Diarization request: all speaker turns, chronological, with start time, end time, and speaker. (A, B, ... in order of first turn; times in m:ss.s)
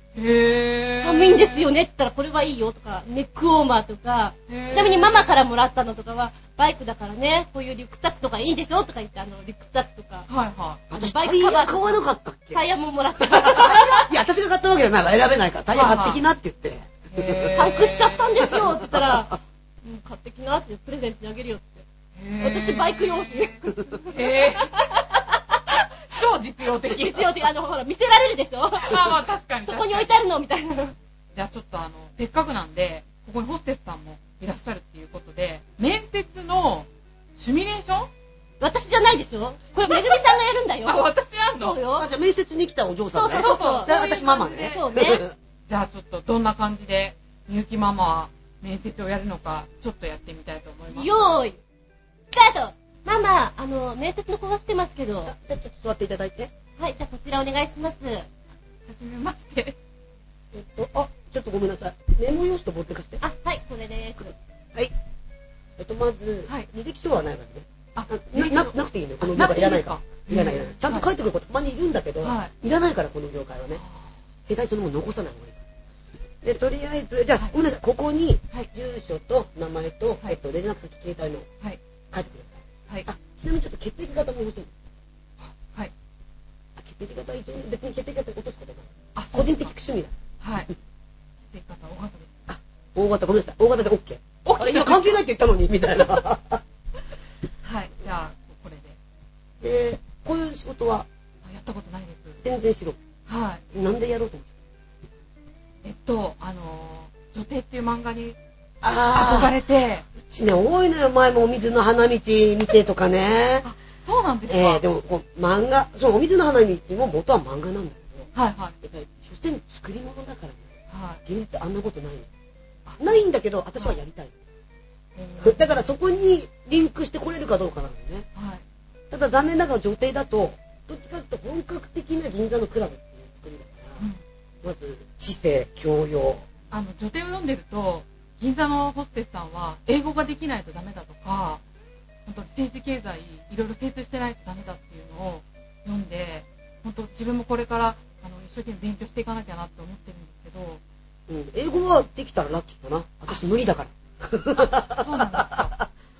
0:00.2-0:01.7 A
0:00.9-0:10.3 B
0:04.5-0:05.3 A
0:10.3-0:10.8 A
0:10.9-0:12.6 C
0:11.0-0:12.0 B
0:12.5-0:14.1 B
0:13.2-0:17.7 C
0:15.7-0:16.2 A
0:17.1-0:18.6 A
0:17.5-0:21.8 B
0:18.6-0:19.3 C
0:22.2-0:24.9 A
0:22.4-0:25.9 B
0:26.1-0:27.4 A
0:26.8-0:31.0 B
0:28.8-0:30.2 A
0:31.4-0:38.1 A
0:38.6-0:42.1 B
0:39.9-0:40.2 A
0:40.8-0:41.8 A
0:42.0-0:45.3 C
0:43.1-0:43.9 B
0:43.2-0:45.2 A
0:44.7-0:45.2 B
0:45.7-0:51.3 A
0:50.9-0:51.6 B
0:52.3-0:55.3 B
0:55.3-0:56.5 C
0:56.8-0:58.3 B
0:58.9-0:59.8 A
1:00.5-1:03.2 C
1:03.2-1:04.3 B
1:05.8-1:13.8 C
1:08.0-1:11.1 A
1:12.2-1:12.5 A
1:13.8-1:14.1 A
1:14.5-1:15.6 C
1:16.4-1:21.5 C
1:22.1-1:24.8 C
1:26.8-1:30.2 C
1:29.2-1:29.7 A
1:30.4-1:30.7 A
1:31.5-1:32.4 A
1:32.5-1:36.6 C
1:34.4-1:35.2 A
1:37.6-1:39.0 A
1:39.6-1:41.1 C
1:41.4-1:42.4 A
1:42.4-1:43.0 C
1:43.3-1:43.6 A
1:43.7-1:44.5 C
1:45.8-1:48.4 A
1:48.8-1:49.6 C
1:49.0-1:50.1 A
1:50.2-1:53.7 C
1:53.6-1:54.8 A
1:54.5-1:58.3 C
1:58.4-1:58.8 A
1:58.8-2:00.7 C
2:00.9-2:01.2 A
2:01.3-2:02.3 C
2:02.9-2:03.2 A
2:03.0-2:04.4 C
2:05.2-2:05.9 A
2:05.4-2:08.3 C
2:08.4-2:08.6 A
2:09.1-2:14.0 C
2:14.6-2:16.4 C
2:16.7-2:21.6 A
2:22.3-2:30.8 A
2:31.3-2:35.8 C
2:34.6-2:35.8 A